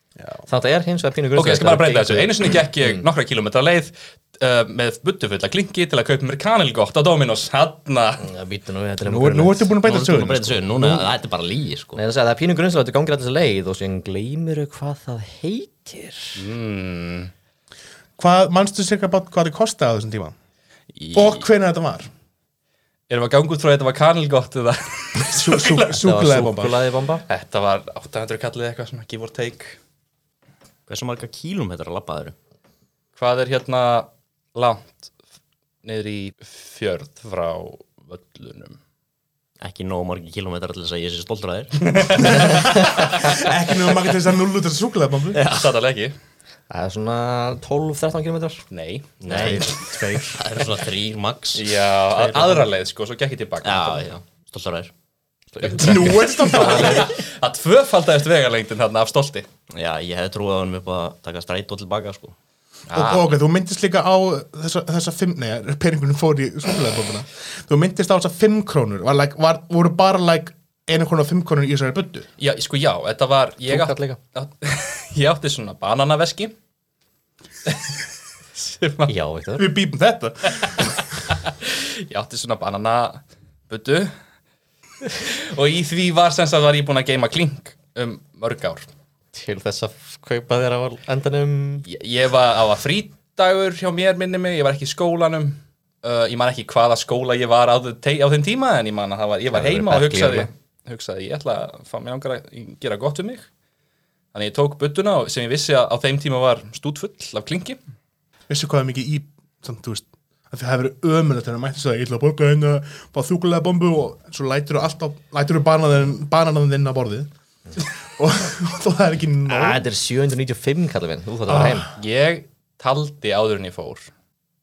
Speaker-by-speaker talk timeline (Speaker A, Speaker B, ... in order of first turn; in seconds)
Speaker A: 0.2-0.4, 9.0-11.1, 18.2-20.3, 21.1-22.1, 25.2-26.8, 42.2-45.4, 49.3-50.4, 52.1-52.7, 55.6-57.1, 62.9-72.3, 79.5-81.0, 108.5-119.8, 121.5-121.8
Speaker B: 0.5-3.0, 8.2-9.7, 11.9-16.4, 25.9-27.2, 46.7-48.6, 55.6-57.0, 73.7-74.2, 79.1-79.7, 89.3-91.8, 99.5-100.5, 119.5-121.9
Speaker C: 1.4-8.2, 16.4-17.3, 23.1-26.0, 27.3-29.8, 33.1-35.1, 35.8-38.8, 41.8-43.2, 45.4-46.2, 48.7-49.7, 51.5-54.1, 55.5-59.5, 62.9-63.4, 72.4-76.5, 77.7-77.9, 78.5-79.1, 80.5-84.1, 85.1-88.9, 91.8-103.5, 104.3-107.8, 121.9-124.1
Speaker D: 9.8-12.0, 20.9-21.4, 30.9-32.3, 39.6-42.6, 45.3-45.7, 49.2-49.8, 50.3-51.6, 53.6-54.9, 59.7-62.3